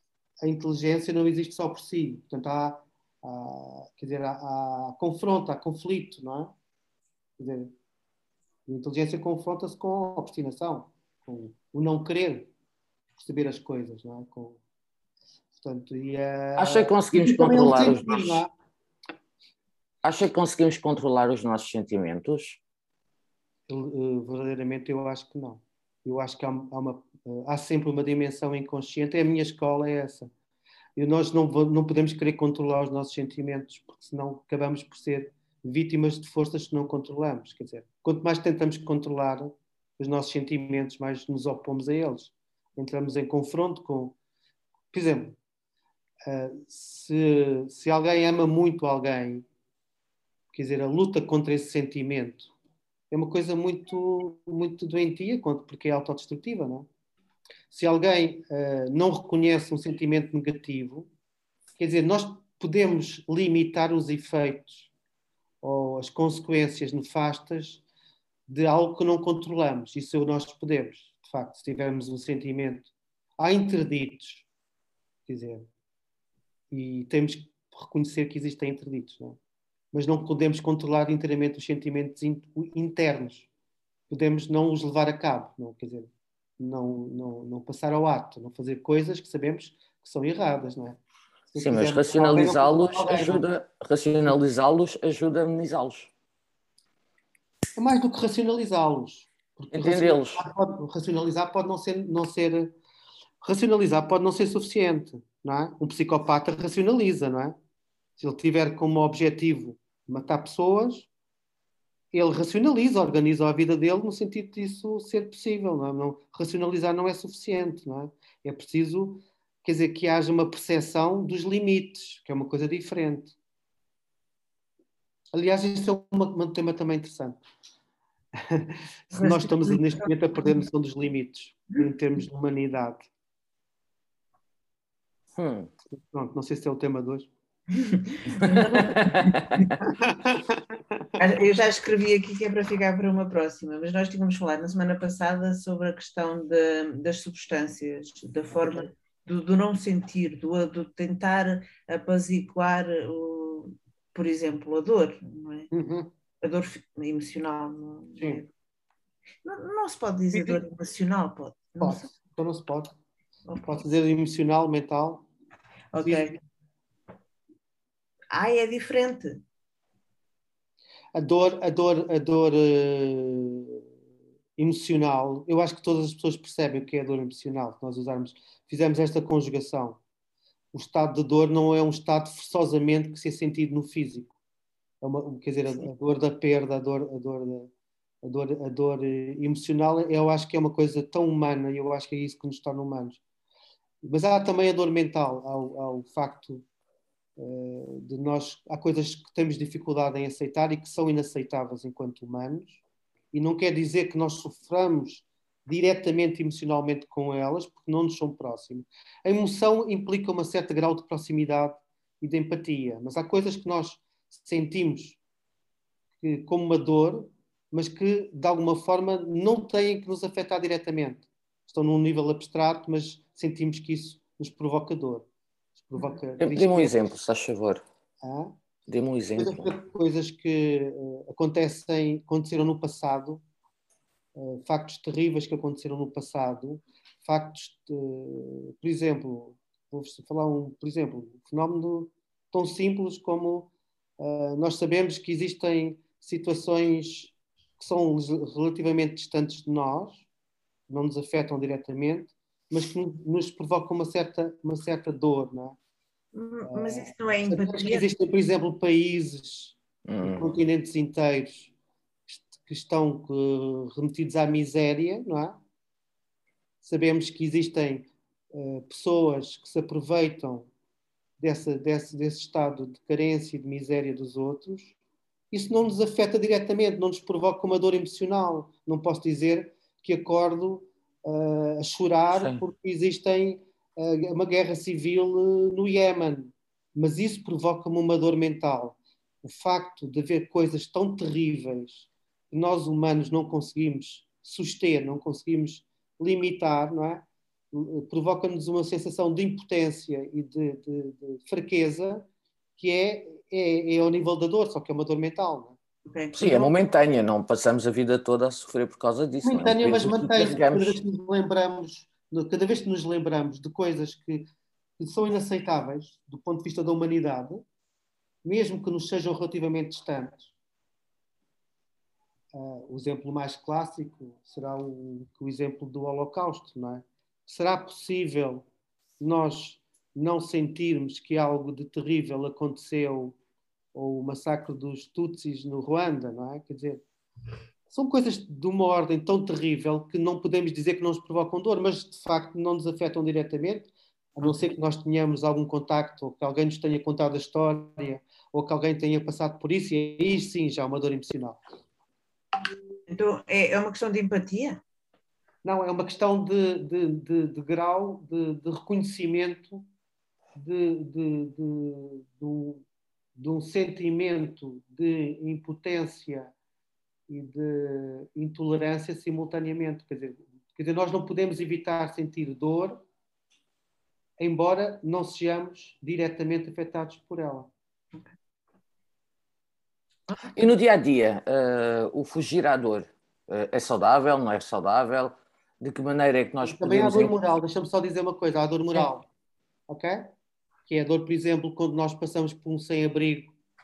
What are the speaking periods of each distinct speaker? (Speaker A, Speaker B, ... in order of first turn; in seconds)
Speaker A: 0.4-6.5, 7.4-7.7, 8.7-12.5, 13.2-14.6, 15.6-18.5, 23.7-30.3, 30.9-44.1, 44.9-45.4, 46.2-49.4, 50.5-52.5, 53.1-56.9, 57.7-61.1, 61.8-64.9, 65.6-67.8, 68.5-74.5, 75.3-75.7, 76.7-79.4, 79.9-83.5, 84.1-91.0, 91.5-93.4, 97.8-102.7, 103.4-107.5, 108.2-111.1, 112.1-123.3, 125.3-127.4, 128.4-133.1, 135.9-137.3, 139.8-141.0, 148.6-148.9, 155.7-156.1, 158.2-158.4, 160.3-160.6, 161.8-162.9, 163.7-165.2, 166.0-166.4, 171.1-173.8, 174.6-180.0, 180.7-184.3, 185.0-187.7, 188.2-193.2, 194.0-196.6, 197.4-202.8, 203.3-215.2, 216.2-225.2, 225.8-226.9, 228.2-228.5, 229.4-233.4, 234.3-250.2, 250.9-255.8, 256.7-261.7, 262.3-265.6, 266.8-270.7, 271.4-274.9, 275.5-302.2, 302.8-305.8, 309.4-317.6, 318.4-320.5, 322.5-328.6, 329.2-333.4, 333.9-337.0, 337.9-351.6, 355.6-359.9, 360.6-362.8, 363.4-366.5, 367.3-373.0, 374.4-377.7, 386.6-389.3, 389.9-390.3, 390.9-393.5
Speaker B: 16.6-18.4, 20.0-22.6, 91.6-96.1, 99.7-100.4, 135.3-135.7, 138.4-139.7, 226.4-227.8, 228.9-229.7, 260.1-260.5, 282.3-282.6, 306.3-311.0, 380.5-387.3
Speaker C: 129.1-130.6, 137.7-139.7, 141.2-155.7, 156.4-158.5, 159.4-162.1, 163.5-163.8, 165.9-166.3, 168.3-169.4, 256.3-258.1, 306.1-306.7, 353.1-354.8